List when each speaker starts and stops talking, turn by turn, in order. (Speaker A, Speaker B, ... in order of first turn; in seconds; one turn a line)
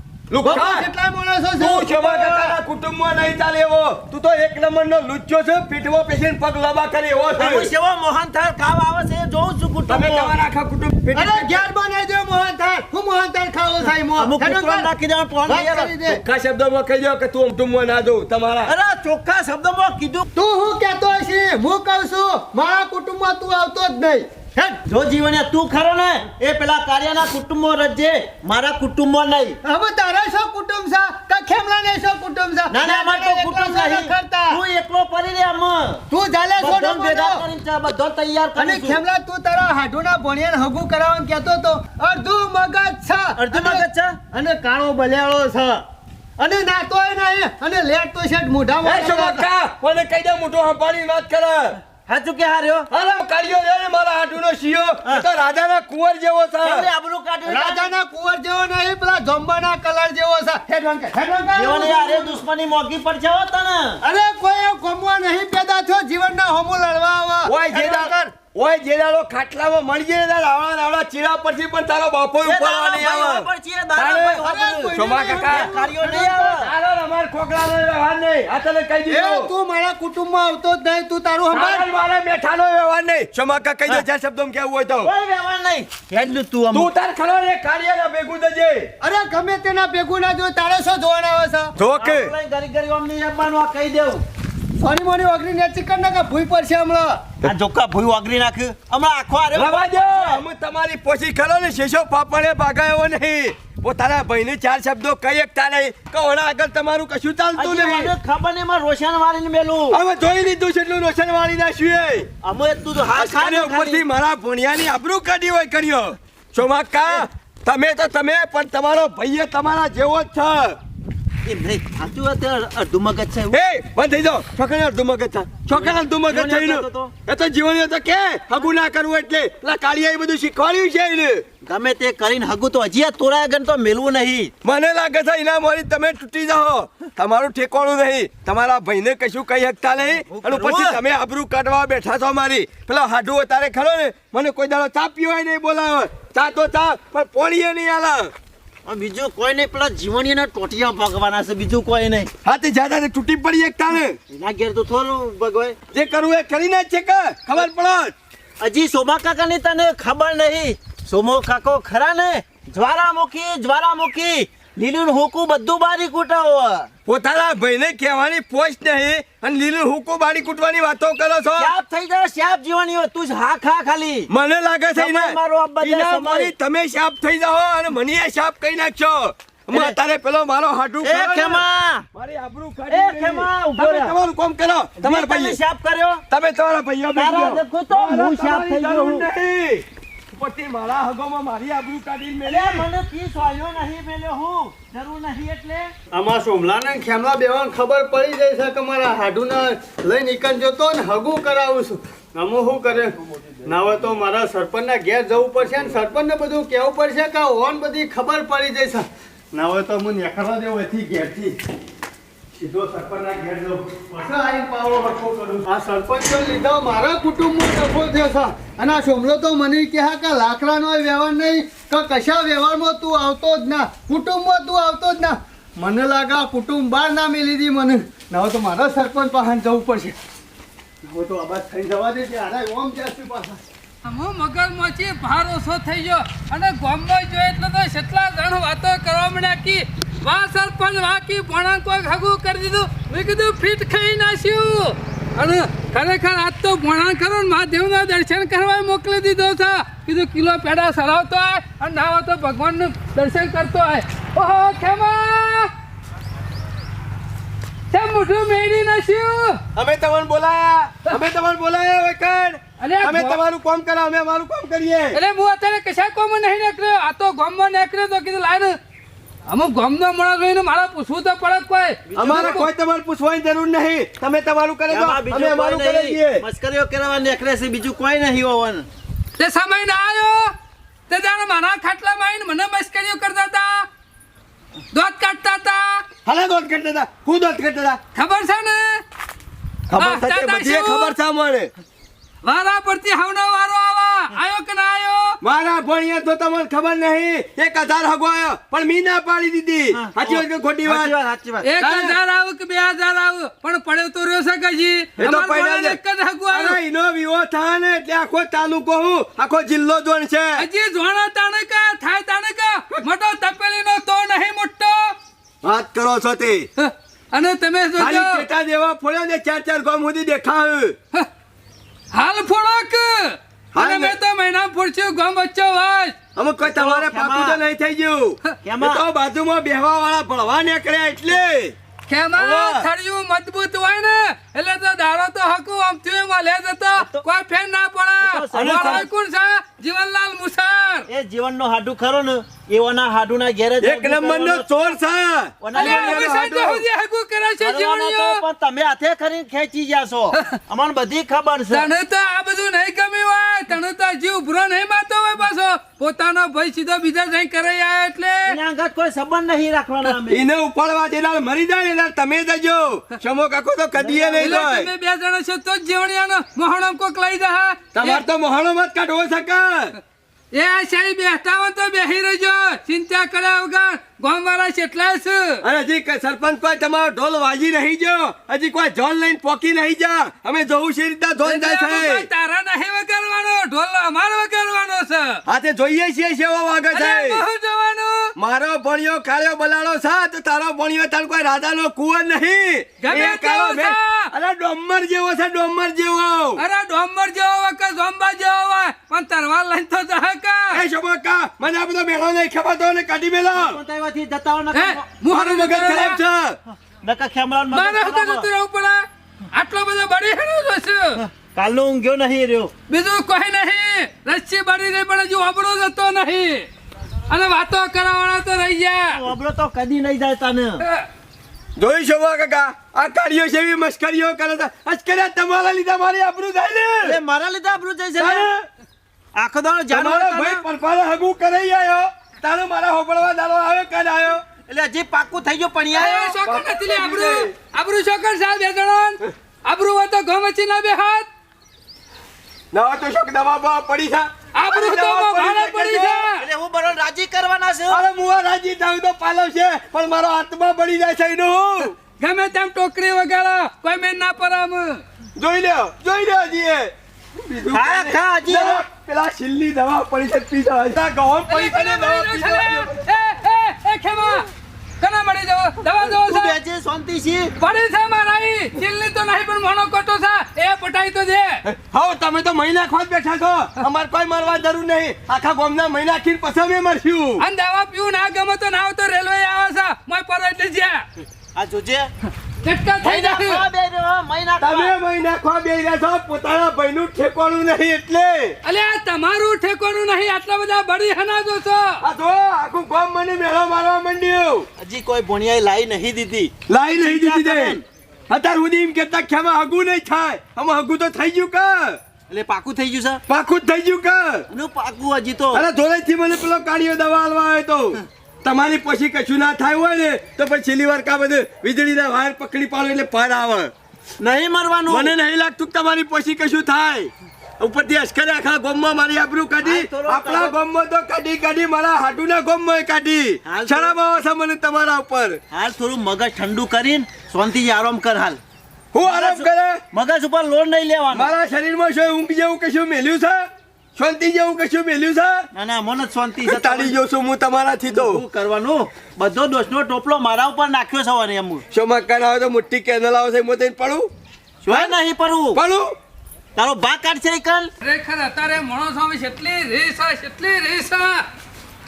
Speaker A: 0.3-0.9
Speaker B: 0.4-2.6
Speaker A: 1.6-7.7
Speaker C: 7.4-10.3
Speaker A: 9.9-11.6
Speaker B: 11.1-14.9
Speaker C: 13.8-15.9
Speaker B: 15.4-16.2
Speaker A: 16.0-18.7
Speaker C: 18.6-20.3
Speaker B: 20.3-24.8
Speaker C: 24.9-29.6
Speaker B: 29.6-34.6
Speaker C: 32.7-36.0
Speaker B: 36.1-37.4
Speaker C: 36.6-39.0
Speaker B: 38.6-45.8
Speaker C: 43.4-44.2
Speaker B: 46.4-49.5
Speaker A: 48.8-51.8
Speaker C: 52.1-52.9
Speaker A: 52.9-56.9
Speaker C: 56.6-57.8
Speaker B: 57.5-62.4
Speaker C: 61.5-64.0
Speaker B: 64.0-68.3
Speaker A: 67.5-75.7
Speaker C: 72.4-76.7
Speaker B: 74.4-76.4
Speaker A: 76.4-79.5
Speaker B: 79.1-81.9
Speaker A: 81.5-85.1
Speaker C: 85.0-86.9
Speaker A: 86.7-88.9
Speaker B: 89.0-91.7
Speaker A: 91.8-92.3
Speaker C: 92.0-94.2
Speaker B: 94.8-97.2
Speaker C: 97.4-100.4
Speaker A: 99.5-108.1
Speaker C: 107.5-110.0
Speaker A: 109.9-112.3
Speaker C: 112.4-114.0
Speaker A: 113.1-120.8
Speaker C: 121.4-123.5
Speaker A: 123.5-131.4
Speaker C: 125.7-127.1
Speaker C: 131.7-134.5
Speaker A: 134.6-148.3
Speaker C: 140.2-141.0
Speaker C: 148.8-152.3
Speaker A: 152.4-154.2
Speaker C: 154.3-155.8
Speaker A: 155.9-158.1
Speaker C: 158.6-166.9
Speaker A: 167.1-171.7
Speaker C: 171.6-174.3
Speaker A: 174.3-181.6
Speaker C: 174.9-176.5
Speaker C: 179.7-180.0
Speaker C: 181.0-182.1
Speaker A: 182.1-185.6
Speaker C: 182.9-184.1
Speaker C: 185.0-186.2
Speaker A: 186.3-192.9
Speaker C: 187.2-189.3
Speaker C: 192.4-195.9
Speaker B: 196.1-211.6
Speaker B: 212.6-230.2
Speaker B: 231.0-233.6
Speaker D: 234.0-255.7
Speaker D: 257.9-259.6
Speaker A: 259.8-265.2
Speaker D: 262.8-263.4
Speaker D: 265.1-268.8
Speaker D: 269.5-272.7
Speaker C: 272.1-272.6
Speaker A: 272.2-276.4
Speaker C: 274.9-278.9
Speaker D: 279.4-280.5
Speaker D: 281.1-283.9
Speaker D: 284.9-286.0
Speaker A: 286.2-288.0
Speaker D: 288.1-289.0
Speaker A: 289.9-291.7
Speaker D: 290.0-291.1
Speaker D: 292.4-295.4
Speaker A: 295.4-301.1
Speaker C: 299.9-301.7
Speaker D: 301.6-306.8
Speaker A: 301.8-302.1
Speaker A: 305.2-306.0
Speaker A: 306.5-310.6
Speaker D: 310.6-315.1
Speaker A: 315.6-316.7
Speaker D: 316.8-318.4
Speaker A: 318.0-320.9
Speaker D: 322.1-326.2
Speaker A: 323.7-324.1
Speaker A: 326.3-331.7
Speaker C: 326.6-327.6
Speaker C: 328.6-329.0
Speaker D: 332.1-341.1
Speaker A: 332.4-332.9
Speaker C: 337.0-337.2
Speaker C: 338.2-339.1
Speaker A: 338.6-339.0
Speaker C: 341.1-344.6
Speaker A: 343.8-346.8
Speaker C: 345.6-346.3
Speaker D: 345.7-348.4
Speaker C: 347.6-351.9
Speaker D: 351.7-358.6
Speaker C: 358.4-360.4
Speaker A: 360.3-364.9
Speaker C: 364.0-364.6
Speaker D: 364.4-368.2
Speaker A: 367.9-369.9
Speaker D: 370.5-375.6
Speaker A: 375.6-382.3
Speaker D: 381.4-385.4
Speaker A: 385.5-387.4
Speaker D: 386.9-388.3
Speaker A: 388.4-396.6
Speaker D: 393.0-394.3
Speaker D: 396.6-400.8
Speaker A: 400.7-403.8
Speaker C: 403.5-405.1
Speaker D: 404.7-406.2
Speaker A: 405.3-406.6
Speaker C: 406.7-408.5
Speaker D: 407.7-411.2
Speaker C: 411.1-412.7
Speaker D: 412.9-416.7
Speaker D: 417.3-419.2
Speaker C: 419.1-420.8
Speaker D: 420.8-421.1
Speaker A: 421.8-427.2
Speaker C: 427.0-428.5
Speaker A: 428.2-428.6
Speaker C: 429.4-430.6
Speaker A: 429.9-434.4
Speaker C: 434.7-436.4
Speaker D: 435.9-441.3
Speaker A: 436.4-437.5
Speaker A: 442.7-446.3
Speaker D: 444.5-446.4
Speaker C: 446.3-448.0
Speaker A: 447.9-452.0
Speaker D: 452.2-455.0
Speaker A: 455.4-462.9
Speaker C: 457.7-458.8
Speaker D: 461.5-464.4
Speaker D: 465.0-466.6
Speaker C: 466.0-467.5
Speaker D: 467.6-471.6
Speaker A: 471.6-477.4
Speaker D: 477.4-481.0
Speaker C: 481.6-482.1
Speaker D: 482.6-483.6
Speaker C: 483.0-484.9
Speaker A: 484.6-488.6
Speaker D: 488.6-492.0
Speaker A: 492.0-494.7
Speaker C: 494.8-497.8
Speaker A: 496.7-497.8
Speaker A: 498.3-502.0
Speaker C: 502.3-503.2
Speaker A: 503.3-504.5
Speaker C: 504.5-505.6
Speaker A: 505.5-513.7
Speaker C: 514.2-515.1
Speaker A: 514.9-525.4
Speaker C: 519.6-520.5
Speaker C: 523.4-524.0
Speaker C: 525.5-528.4
Speaker A: 528.9-529.8
Speaker C: 529.0-531.3
Speaker A: 531.1-535.5
Speaker C: 535.5-536.9
Speaker A: 536.4-538.2
Speaker C: 537.9-541.6
Speaker A: 541.7-544.1
Speaker C: 544.6-545.6
Speaker A: 545.5-546.0
Speaker C: 546.5-547.7
Speaker D: 547.8-551.2